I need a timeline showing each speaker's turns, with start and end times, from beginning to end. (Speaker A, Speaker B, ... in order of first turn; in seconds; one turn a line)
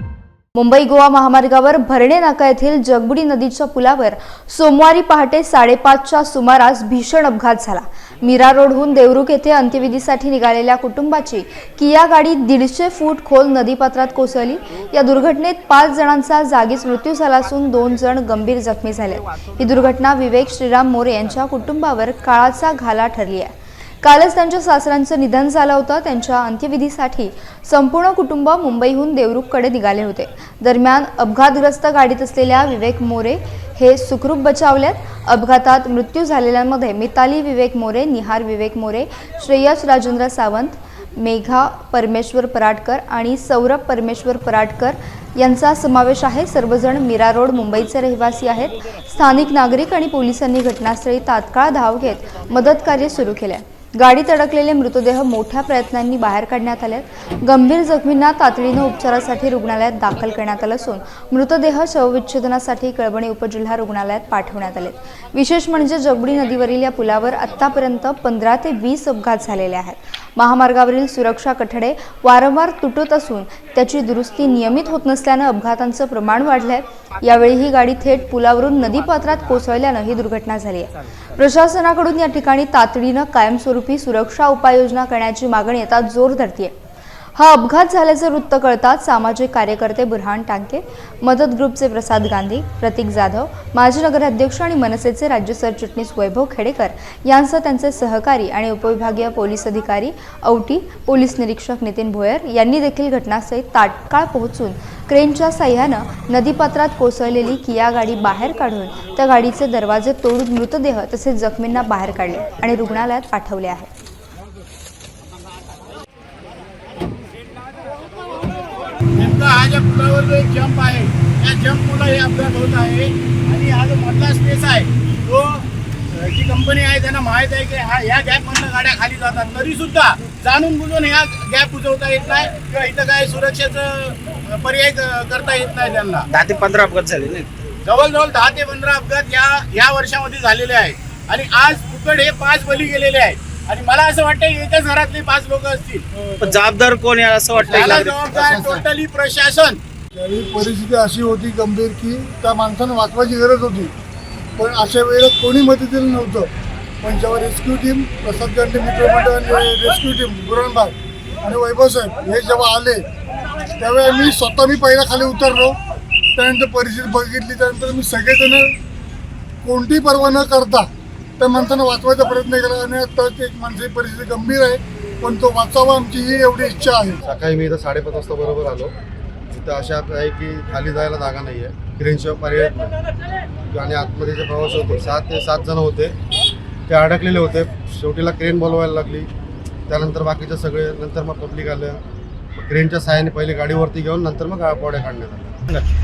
Speaker A: 0.6-86.7
Speaker A: 87.3-113.9
Speaker B: 119.1-136.2
Speaker C: 136.3-137.5
Speaker B: 137.8-146.1
Speaker C: 146.4-148.8
Speaker B: 147.7-149.8
Speaker D: 150.2-153.9
Speaker D: 154.6-156.5
Speaker D: 157.0-163.0
Speaker D: 163.8-165.8
Speaker D: 166.3-168.7
Speaker D: 169.6-177.2
Speaker E: 177.2-178.9
Speaker E: 179.5-183.0
Speaker E: 183.7-186.2
Speaker E: 186.9-189.3
Speaker E: 189.9-192.0
Speaker E: 192.6-195.6